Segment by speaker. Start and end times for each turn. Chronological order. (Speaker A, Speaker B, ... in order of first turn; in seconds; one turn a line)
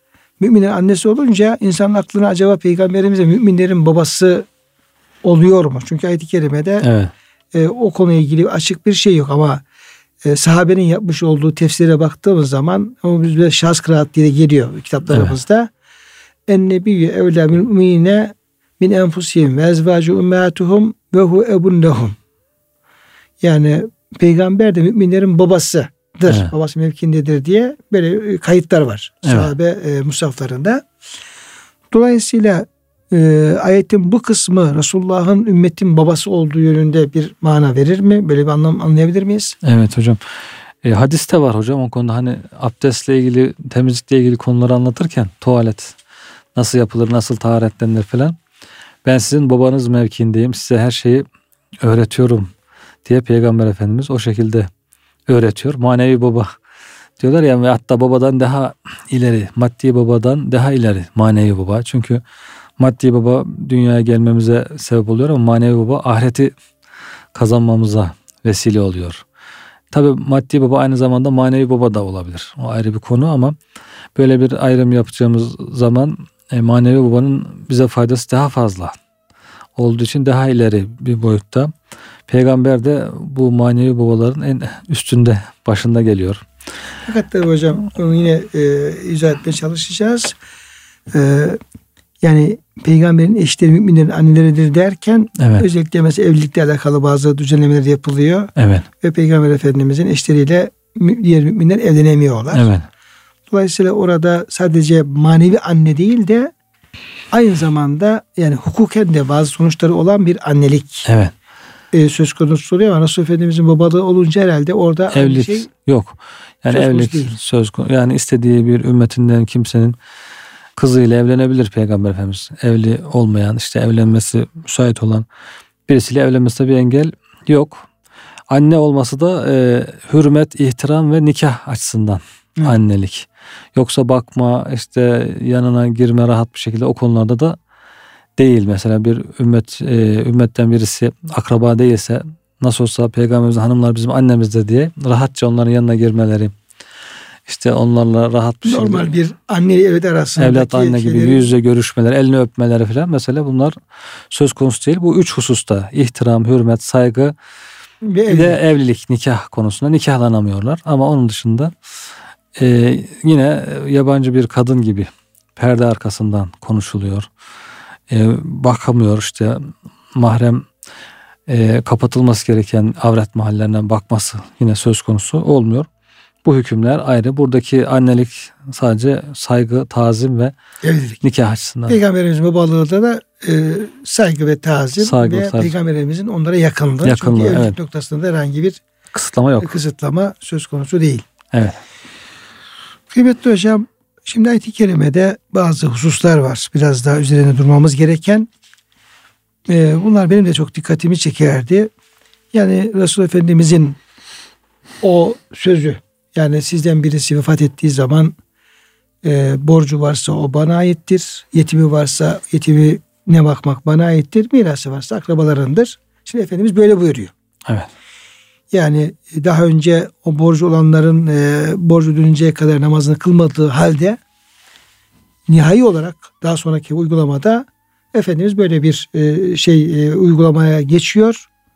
Speaker A: 0.4-4.5
Speaker A: 5.2-6.9
Speaker B: 6.8-7.1
Speaker A: 7.5-9.6
Speaker A: 10.2-15.7
Speaker A: 16.5-22.1
Speaker A: 23.4-30.8
Speaker B: 29.2-29.5
Speaker A: 31.9-39.5
Speaker B: 39.6-40.2
Speaker B: 40.8-46.0
Speaker B: 46.5-48.4
Speaker B: 49.0-51.2
Speaker B: 51.8-52.5
Speaker B: 53.0-54.7
Speaker B: 55.3-56.5
Speaker B: 57.2-62.2
Speaker B: 62.8-66.5
Speaker B: 67.3-69.2
Speaker B: 69.9-73.5
Speaker B: 74.1-78.9
Speaker B: 79.8-81.7
Speaker B: 82.3-86.4
Speaker A: 87.0-90.3
Speaker A: 91.1-91.6
Speaker A: 92.2-102.7
Speaker B: 95.4-95.7
Speaker B: 98.5-98.9
Speaker B: 102.5-102.8
Speaker A: 103.5-106.5
Speaker A: 107.3-111.1
Speaker B: 111.0-111.3
Speaker A: 111.9-115.7
Speaker B: 115.1-120.0
Speaker A: 116.7-117.3
Speaker B: 120.8-125.2
Speaker B: 125.9-127.9
Speaker B: 128.5-137.6
Speaker B: 138.4-146.5
Speaker B: 147.4-149.1
Speaker A: 148.6-151.5
Speaker B: 150.4-153.8
Speaker B: 154.3-157.3
Speaker A: 158.0-158.6
Speaker B: 158.3-161.7
Speaker B: 162.6-167.3
Speaker B: 168.1-170.7
Speaker B: 171.5-175.9
Speaker B: 176.4-180.5
Speaker A: 180.8-181.2
Speaker B: 181.2-182.0
Speaker A: 181.9-188.8
Speaker B: 185.0-185.7
Speaker B: 187.0-187.8
Speaker B: 189.1-189.7
Speaker A: 189.6-191.2
Speaker B: 191.5-191.8
Speaker A: 193.1-198.5
Speaker A: 199.7-201.9
Speaker A: 202.5-204.0
Speaker A: 205.0-208.3
Speaker A: 209.2-217.3
Speaker A: 218.7-224.2
Speaker A: 225.5-231.5